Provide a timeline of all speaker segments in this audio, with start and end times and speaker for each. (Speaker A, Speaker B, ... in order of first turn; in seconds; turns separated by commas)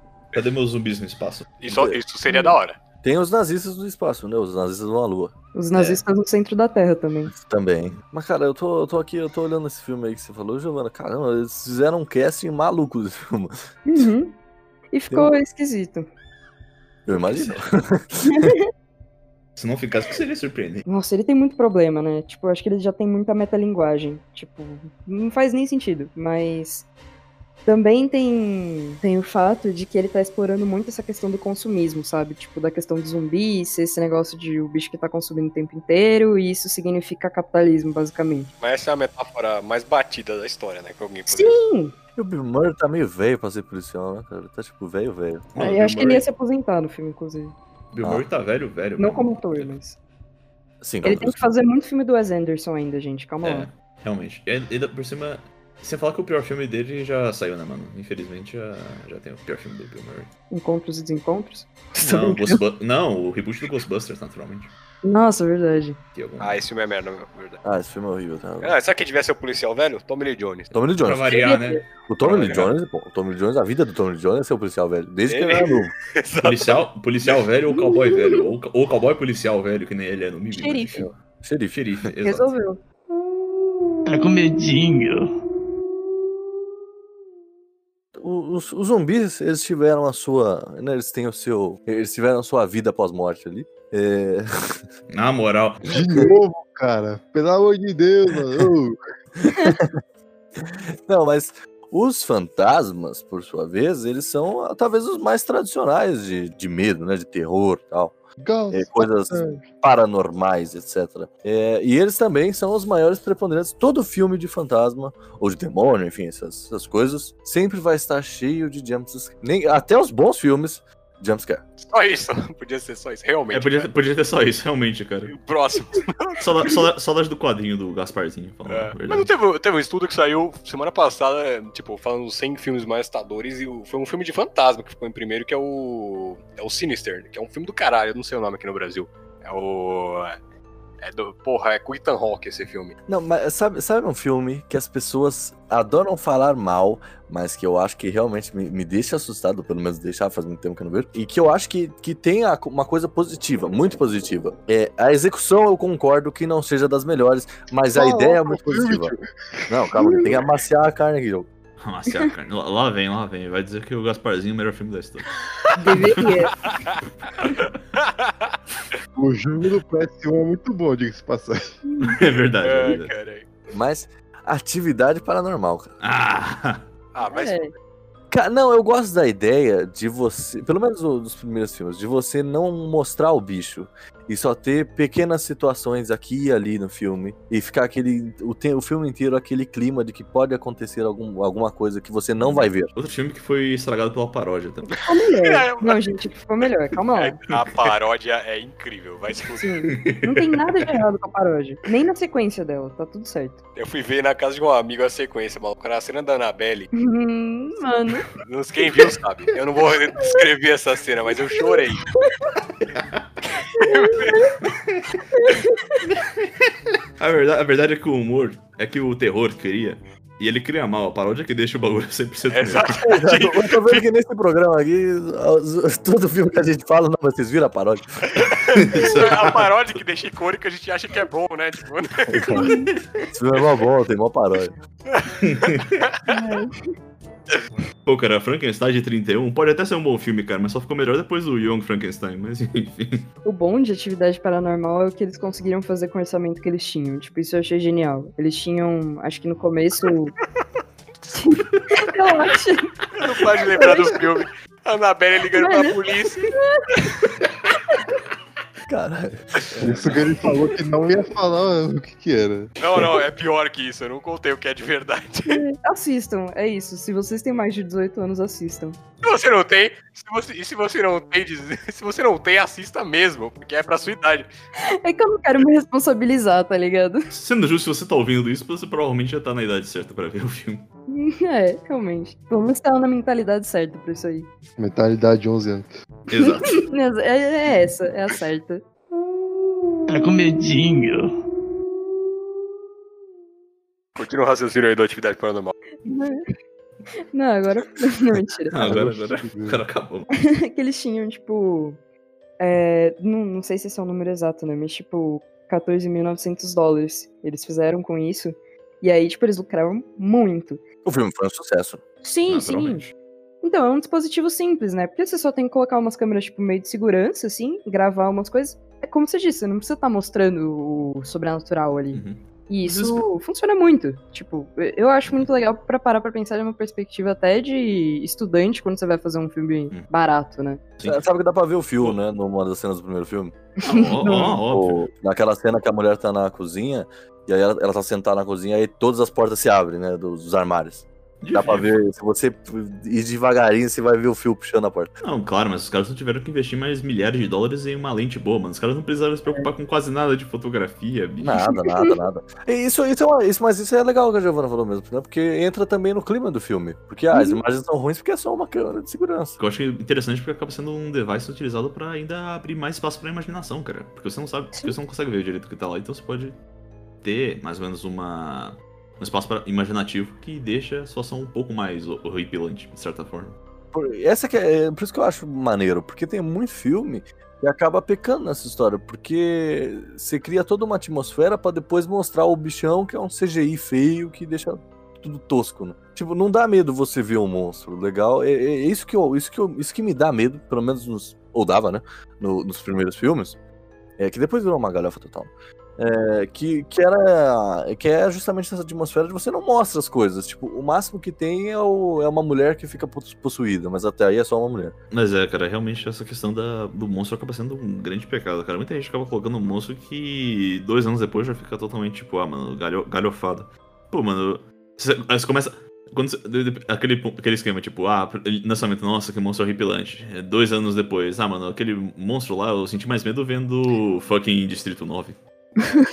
Speaker A: 0.3-1.5, Speaker B: 1.6-2.8, Speaker C: 1.7-2.0, Speaker C: 3.0-6.0, Speaker D: 5.5-7.3, Speaker C: 7.3-14.1, Speaker D: 13.8-14.3, Speaker D: 14.9-16.1, Speaker C: 17.1-18.5, Speaker D: 18.2-18.7, Speaker A: 19.6-20.8, Speaker D: 20.9-26.9, Speaker D: 27.6-38.5, Speaker B: 38.6-41.6, Speaker D: 41.3-41.9, Speaker C: 42.1-45.5, Speaker A: 45.5-46.2, Speaker D: 45.6-47.5, Speaker A: 47.9-49.8, Speaker D: 49.0-50.0, Speaker C: 50.8-51.4, Speaker D: 51.0-53.7, Speaker A: 53.4-60.3, Speaker D: 60.5-62.6, Speaker A: 62.0-64.7, Speaker D: 65.0-66.0, Speaker A: 66.1-66.6, Speaker B: 66.4-67.6, Speaker C: 67.6-68.7, Speaker B: 68.6-70.7, Speaker C: 70.7-71.2, Speaker A: 71.0-72.7, Speaker D: 71.3-71.8, Speaker C: 72.1-75.9, Speaker B: 75.3-76.8, Speaker A: 76.4-81.0, Speaker D: 77.8-78.4, Speaker D: 80.5-81.0, Speaker C: 81.0-81.8, Speaker A: 81.7-82.5, Speaker D: 82.2-82.8, Speaker E: 84.0-85.3, Speaker C: 88.1-94.7, Speaker A: 95.1-95.8, Speaker F: 95.9-99.0, Speaker C: 95.9-96.3, Speaker C: 99.4-99.9, Speaker C: 100.6-108.1, Speaker F: 108.4-109.6, Speaker C: 108.7-121.6, Speaker B: 121.8-123.9, Speaker A: 123.5-125.3, Speaker B: 125.3-126.5, Speaker A: 126.4-129.3, Speaker B: 128.7-140.4, Speaker B: 141.0-142.9, Speaker C: 143.1-159.1, Speaker F: 158.0-160.4, Speaker C: 159.7-161.5, Speaker A: 161.8-165.3, Speaker D: 165.8-166.5, Speaker F: 169.2-171.8, Speaker D: 171.8-172.2, Speaker A: 172.0-173.1, Speaker B: 172.6-173.4, Speaker C: 173.7-175.9, Speaker A: 176.0-176.8, Speaker B: 177.1-177.6, Speaker D: 177.2-177.7, Speaker C: 178.3-192.9, Speaker A: 192.4-194.9, Speaker D: 195.1-197.4, Speaker B: 195.4-196.0, Speaker B: 197.2-199.7, Speaker A: 197.5-197.9, Speaker D: 199.6-203.6, Speaker A: 199.9-200.9, Speaker B: 203.8-206.9, Speaker D: 206.9-208.3, Speaker B: 208.4-212.0, Speaker A: 212.8-213.2, Speaker B: 213.8-214.5, Speaker D: 213.8-214.5, Speaker A: 214.6-215.0, Speaker D: 215.3-215.8, Speaker A: 217.2-223.0, Speaker B: 222.4-224.0, Speaker C: 223.0-228.2, Speaker B: 228.5-232.7, Speaker A: 228.8-229.8, Speaker C: 232.3-232.7, Speaker C: 233.3-234.8, Speaker A: 235.4-235.8, Speaker D: 236.3-236.8, Speaker A: 238.1-243.2, Speaker D: 243.4-250.3, Speaker D: 251.3-252.9, Speaker B: 253.2-256.4, Speaker D: 253.8-254.1, Speaker D: 255.5-255.9, Speaker D: 256.5-256.8, Speaker C: 258.9-260.1, Speaker A: 259.8-260.2, Speaker F: 259.8-262.7, Speaker B: 262.8-265.6, Speaker D: 265.5-269.0, Speaker B: 269.2-274.5, Speaker D: 274.8-277.3, Speaker A: 277.3-280.8, Speaker D: 281.1-284.5, Speaker F: 284.8-285.9, Speaker A: 286.3-286.7, Speaker D: 286.7-288.8, Speaker E: 290.1-291.4, Speaker B: 294.1-295.7, Speaker D: 296.0-296.4, Speaker D: 297.3-298.8, Speaker A: 298.7-300.3, Speaker F: 298.8-299.8, Speaker D: 300.3-302.0, Speaker D: 302.6-310.8, Speaker C: 311.0-312.0, Speaker D: 312.2-313.0, Speaker A: 312.5-313.1, Speaker D: 313.6-330.8, Speaker A: 322.1-323.2, Speaker C: 331.0-333.5, Speaker D: 333.8-334.6, Speaker A: 333.8-335.0, Speaker C: 334.7-345.1, Speaker A: 341.4-341.9, Speaker A: 345.2-351.7, Speaker C: 351.4-359.6, Speaker D: 357.3-357.6, Speaker A: 359.6-366.6, Speaker A: 367.2-373.6, Speaker C: 373.9-393.6, Speaker C: 394.2-404.9, Speaker A: 405.1-425.4